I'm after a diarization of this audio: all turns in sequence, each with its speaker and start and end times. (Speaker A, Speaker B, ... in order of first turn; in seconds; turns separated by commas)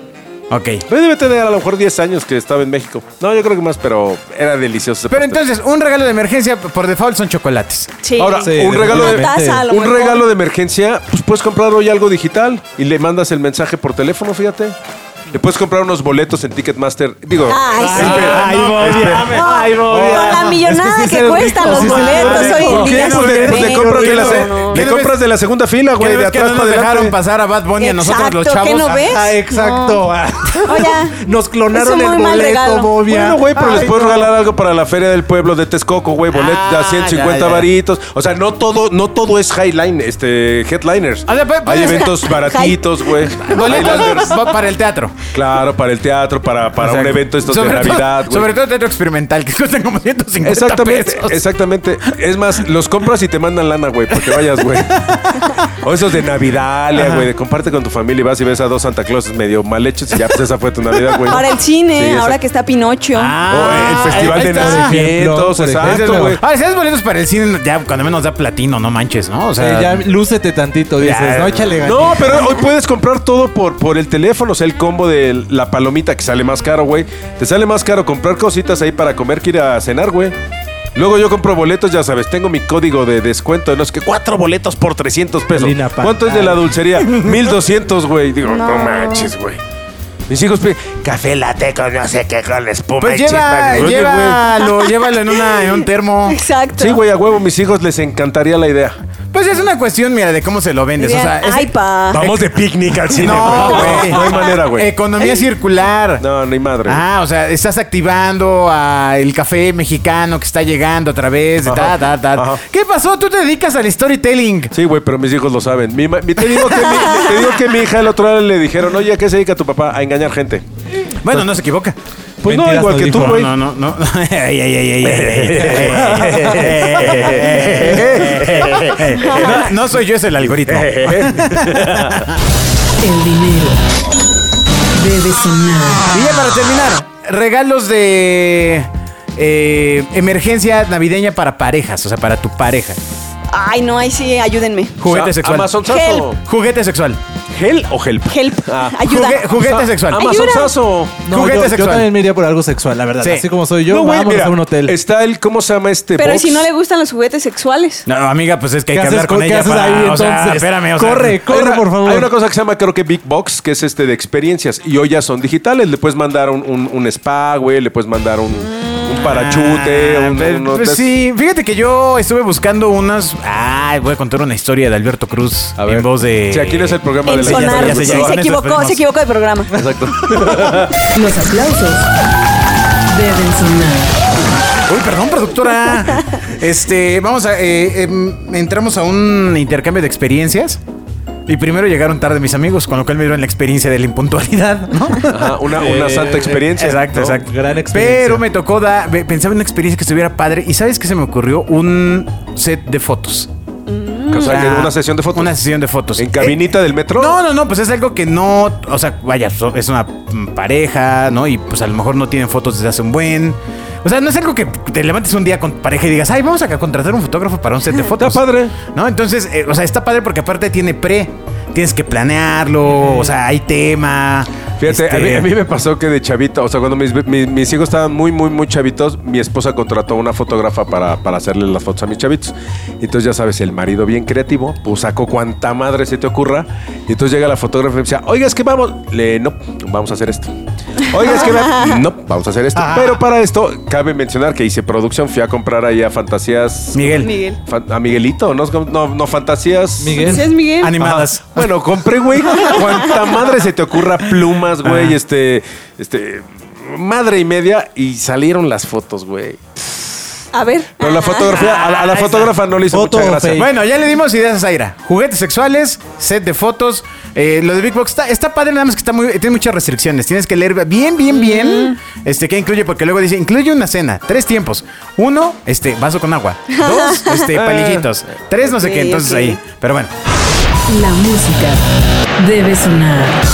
Speaker A: 0.5-0.8, Speaker B: 0.9-5.4, Speaker A: 5.1-7.9, Speaker C: 8.0-10.3, Speaker B: 8.2-14.8, Speaker D: 8.4-9.6, Speaker B: 15.3-19.4, Speaker C: 17.5-18.4, Speaker A: 17.7-20.5, Speaker D: 18.0-24.5, Speaker C: 19.3-24.9, Speaker B: 21.8-27.1, Speaker A: 22.0-25.2, Speaker A: 25.9-29.1, Speaker C: 27.8-30.1, Speaker D: 28.9-33.5, Speaker C: 30.6-31.2, Speaker C: 31.7-32.9, Speaker B: 33.0-44.4, Speaker A: 33.5-34.2, Speaker A: 36.3-37.7, Speaker A: 41.2-42.2, Speaker C: 41.8-43.7, Speaker A: 43.4-45.2, Speaker B: 45.3-48.5, Speaker A: 46.8-51.4, Speaker B: 50.4-62.4, Speaker C: 61.3-63.9, Speaker A: 63.1-65.0, Speaker B: 63.5-66.4, Speaker D: 64.0-66.4, Speaker A: 65.8-70.1, Speaker D: 69.6-72.6, Speaker A: 71.0-71.7, Speaker B: 71.8-80.3, Speaker B: 80.9-89.6, Speaker D: 85.5-86.7, Speaker A: 87.0-87.5, Speaker C: 88.4-89.3, Speaker B: 90.3-94.4, Speaker A: 93.0-96.4, Speaker C: 95.3-97.0, Speaker B: 96.8-99.0, Speaker A: 99.3-102.4, Speaker C: 101.0-102.3, Speaker B: 102.1-104.9, Speaker A: 103.1-106.2, Speaker C: 103.5-104.5, Speaker C: 105.2-105.4, Speaker B: 106.2-107.0, Speaker A: 106.8-114.7, Speaker B: 111.6-112.6, Speaker B: 114.7-120.6, Speaker A: 116.4-117.5, Speaker A: 121.1-122.0, Speaker B: 122.4-123.5, Speaker D: 122.5-123.4, Speaker A: 123.0-132.3, Speaker B: 125.0-127.9, Speaker D: 125.8-126.4, Speaker C: 129.1-129.4, Speaker B: 129.2-129.7, Speaker B: 130.5-132.3, Speaker E: 133.0-133.8, Speaker E: 134.9-136.1, Speaker A: 136.1-143.0, Speaker C: 143.5-145.0, Speaker A: 145.0-147.2, Speaker B: 145.0-146.4, Speaker C: 145.8-146.3, Speaker B: 147.5-149.0, Speaker C: 148.3-149.6, Speaker A: 149.0-150.3, Speaker B: 149.5-151.2, Speaker C: 150.1-150.8, Speaker D: 151.2-154.9, Speaker A: 151.3-152.1, Speaker A: 153.2-153.4, Speaker B: 153.9-156.7, Speaker C: 156.2-158.1, Speaker A: 158.1-161.4, Speaker D: 158.9-162.3, Speaker B: 161.4-171.1, Speaker C: 168.6-169.1, Speaker A: 169.1-179.0, Speaker B: 175.8-178.5, Speaker C: 177.2-179.8, Speaker B: 179.7-180.9, Speaker C: 180.3-180.8, Speaker E: 181.1-182.1, Speaker E: 183.1-184.2, Speaker A: 184.9-190.8, Speaker A: 191.5-195.6, Speaker B: 195.3-197.4, Speaker D: 195.7-196.7, Speaker A: 196.7-203.5, Speaker D: 197.4-198.4, Speaker C: 203.9-204.6, Speaker B: 204.3-205.5, Speaker A: 204.3-206.6, Speaker B: 206.2-207.4, Speaker A: 207.1-225.5, Speaker B: 218.2-218.7, Speaker B: 224.8-240.5, Speaker B: 241.1-250.4, Speaker C: 241.1-242.0, Speaker A: 246.9-247.3, Speaker C: 247.2-247.6, Speaker D: 250.0-250.5, Speaker C: 250.2-250.9, Speaker A: 250.8-251.6, Speaker D: 251.0-251.3, Speaker B: 251.5-259.6, Speaker C: 252.5-253.1, Speaker A: 254.8-255.2, Speaker C: 260.5-262.2, Speaker B: 261.0-263.7, Speaker D: 262.9-263.6, Speaker A: 263.5-280.1, Speaker C: 271.3-272.0, Speaker C: 276.7-277.4, Speaker B: 277.5-278.1, Speaker C: 278.6-279.6, Speaker E: 280.9-281.8, Speaker E: 282.4-283.4